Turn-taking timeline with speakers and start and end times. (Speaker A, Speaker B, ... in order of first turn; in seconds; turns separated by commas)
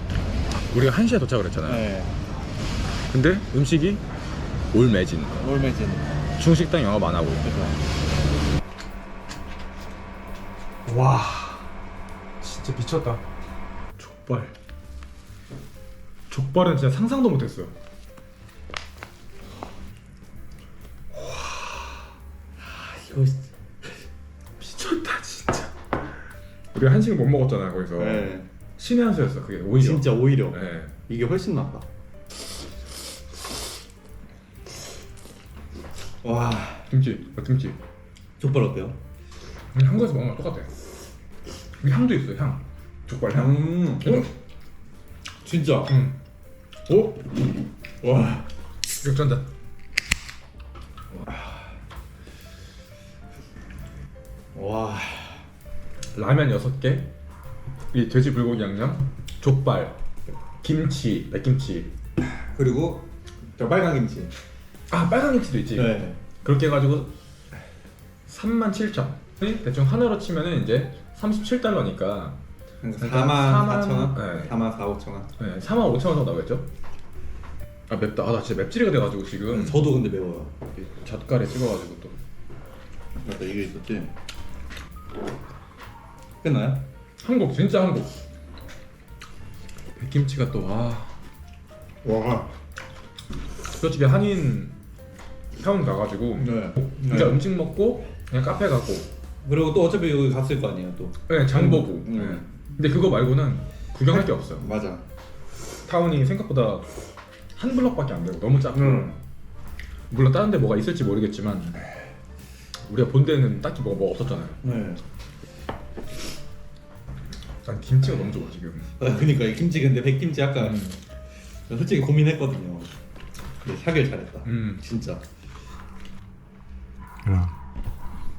Speaker A: 0.7-1.9, Speaker B: 1.7-2.1, Speaker A: 3.1-4.0, Speaker A: 4.7-5.5, Speaker B: 5.4-6.1, Speaker A: 6.4-7.6, Speaker B: 7.4-7.8, Speaker A: 10.9-11.7, Speaker A: 12.4-13.2, Speaker A: 14.0-14.6, Speaker A: 16.3-17.7, Speaker B: 21.3-22.0, Speaker B: 22.6-24.0, Speaker A: 24.6-25.7, Speaker A: 26.7-30.9, Speaker B: 28.0-28.5, Speaker B: 29.8-31.9, Speaker B: 36.2-36.9, Speaker A: 36.9-37.8, Speaker B: 38.4-39.0, Speaker A: 39.7-40.7, Speaker A: 41.8-44.3, Speaker B: 43.3-44.3, Speaker B: 45.4-46.0, Speaker A: 45.9-46.2, Speaker A: 46.9-47.2, Speaker B: 48.0-48.4, Speaker A: 49.0-49.5, Speaker B: 51.2-51.6, Speaker B: 54.5-55.4, Speaker A: 56.1-57.1, Speaker A: 57.9-60.0, Speaker A: 60.6-61.9, Speaker B: 62.3-64.3, Speaker A: 64.9-67.1, Speaker B: 65.7-66.2, Speaker A: 68.3-72.4, Speaker B: 72.8-75.3, Speaker A: 73.0-74.5, Speaker A: 75.4-76.7, Speaker A: 77.9-79.9, Speaker B: 79.5-80.6, Speaker A: 80.8-82.2, Speaker B: 83.2-84.1, Speaker B: 86.4-86.8, Speaker A: 87.2-88.2, Speaker A: 90.0-91.1, Speaker B: 92.0-92.5, Speaker A: 93.7-94.8, Speaker A: 95.6-99.1, Speaker B: 96.4-97.5, Speaker B: 99.4-102.5, Speaker A: 101.3-104.7, Speaker B: 104.1-105.0, Speaker A: 105.9-106.9, Speaker A: 107.6-109.2, Speaker B: 108.7-109.1, Speaker A: 110.1-111.8, Speaker A: 112.9-114.6, Speaker B: 114.6-115.0, Speaker A: 117.6-118.9, Speaker B: 119.0-120.9, Speaker A: 120.6-121.0, Speaker B: 121.7-122.9, Speaker B: 123.7-125.2, Speaker A: 124.5-124.8, Speaker A: 127.2-127.5